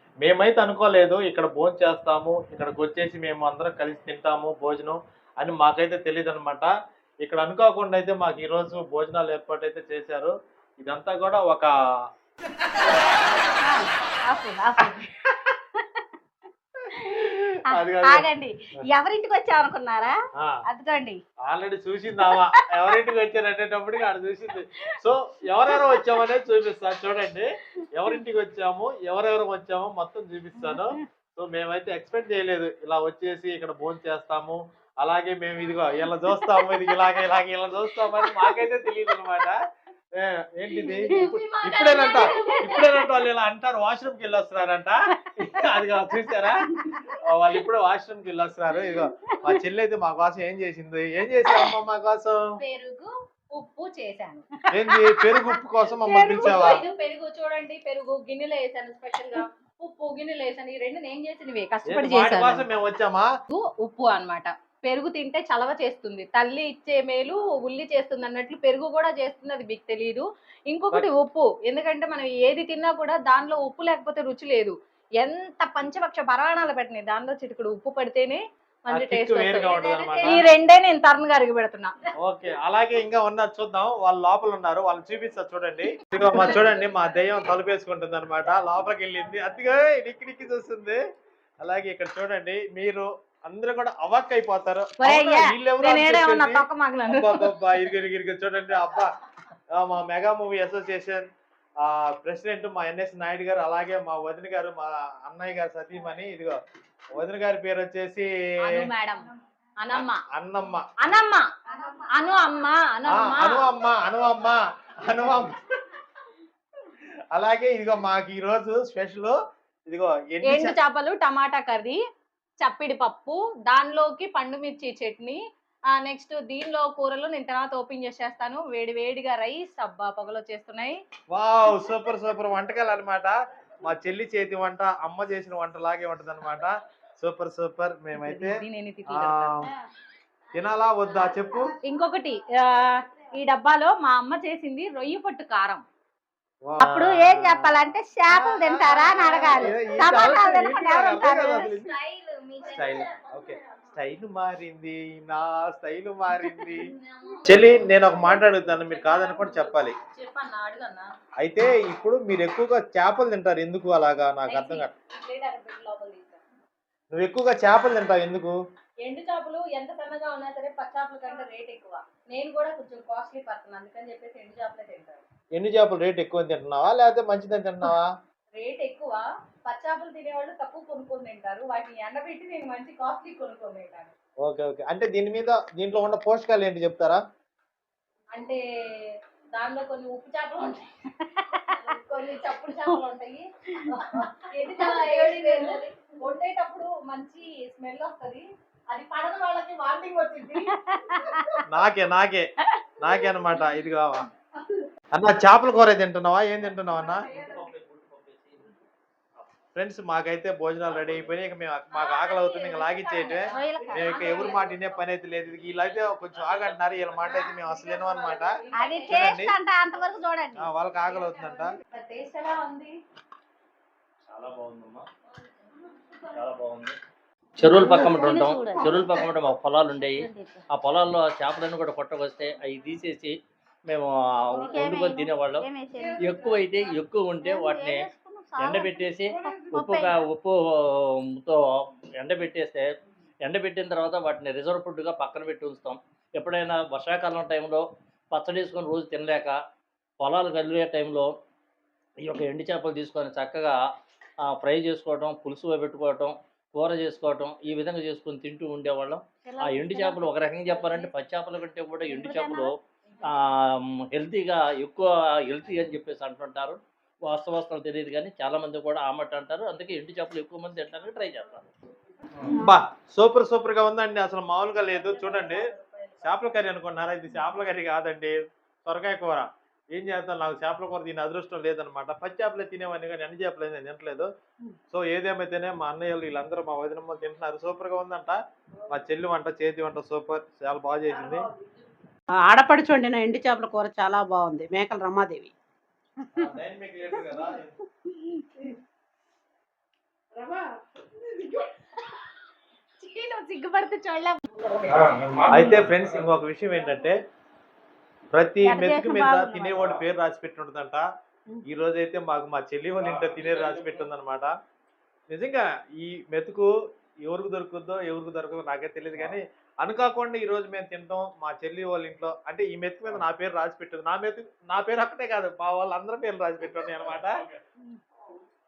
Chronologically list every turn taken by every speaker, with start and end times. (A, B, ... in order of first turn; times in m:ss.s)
0:00.2-0:06.7 A
0:07.2-0:11.7 A
0:13.6-0:16.0 B
0:16.9-0:17.3 B
0:17.7-0:18.3 A
0:17.9-0:20.2 B
0:20.7-0:21.2 B
0:21.5-0:39.6 A
0:40.2-0:52.4 A
0:40.8-0:43.0 C
0:52.6-0:54.5 C
0:54.7-0:56.8 A
0:56.0-1:02.6 C
1:01.9-1:03.3 A
1:03.5-1:21.9 C
1:18.9-1:20.5 A
1:19.6-1:20.5 B
1:22.2-1:31.0 A
1:31.6-1:39.1 A
1:35.0-1:37.5 C
1:39.7-1:41.3 A
1:41.8-1:46.6 A
1:47.2-1:48.3 A
1:48.6-1:49.3 C
1:49.8-1:50.2 C
1:49.9-1:50.9 A
1:51.0-1:53.7 C
1:53.1-1:55.6 A
1:57.3-1:59.4 A
1:59.9-2:00.7 A
2:00.5-2:02.0 C
2:02.6-2:05.4 C
2:06.0-2:11.0 C
2:11.3-2:18.5 A
2:18.2-2:19.6 C
2:19.1-2:19.7 A
2:20.6-2:21.7 A
2:21.8-2:25.8 C
2:26.7-2:31.9 A
2:26.8-2:31.8 B
2:31.5-2:33.1 C
2:32.6-2:36.9 A
2:36.7-2:41.1 C
2:37.5-2:39.9 A
2:41.4-2:44.9 A
2:44.5-2:46.4 C
2:47.1-2:48.5 A
2:49.0-2:55.2 C
2:55.6-2:58.1 A
2:58.6-3:04.1 C
3:04.4-3:07.2 A
3:08.4-3:08.6 C
3:09.6-3:10.8 C
3:11.5-3:21.4 C
3:21.0-3:21.6 B
3:21.7-3:22.5 A
3:23.0-3:24.3 A
3:25.1-3:27.3 A
3:27.1-3:27.6 C
3:27.3-3:28.7 D
3:29.8-3:38.5 A
3:31.9-3:34.9 C
3:33.5-3:34.3 B
3:37.3-3:39.4 C
3:38.8-3:40.7 B
3:39.1-3:39.6 A
3:40.6-3:41.8 A
3:41.9-3:43.0 C
3:44.3-3:45.1 D
3:46.3-3:47.0 D
3:47.6-3:53.3 D
3:47.6-3:49.1 B
3:50.0-3:50.6 B
3:53.9-4:01.6 D
3:54.5-3:56.2 B
3:57.4-4:00.2 B
4:02.2-4:02.9 D
4:03.4-4:09.6 D
4:10.2-4:11.3 D
4:12.2-4:13.7 D
4:14.5-4:31.7 D
4:19.4-4:21.1 B
4:22.0-4:22.7 B
4:32.5-4:35.6 A
4:34.9-4:36.5 C
4:36.2-4:44.3 A
4:44.9-4:48.4 A
4:48.9-4:51.5 A
4:52.4-4:55.5 E
4:56.4-4:57.8 A
5:03.0-5:04.4 B
5:04.9-5:05.7 D
5:05.5-5:07.2 A
5:08.3-5:11.0 A
5:08.6-5:10.0 B
5:11.7-5:14.5 A
5:15.3-5:16.7 A
5:17.3-5:27.4 A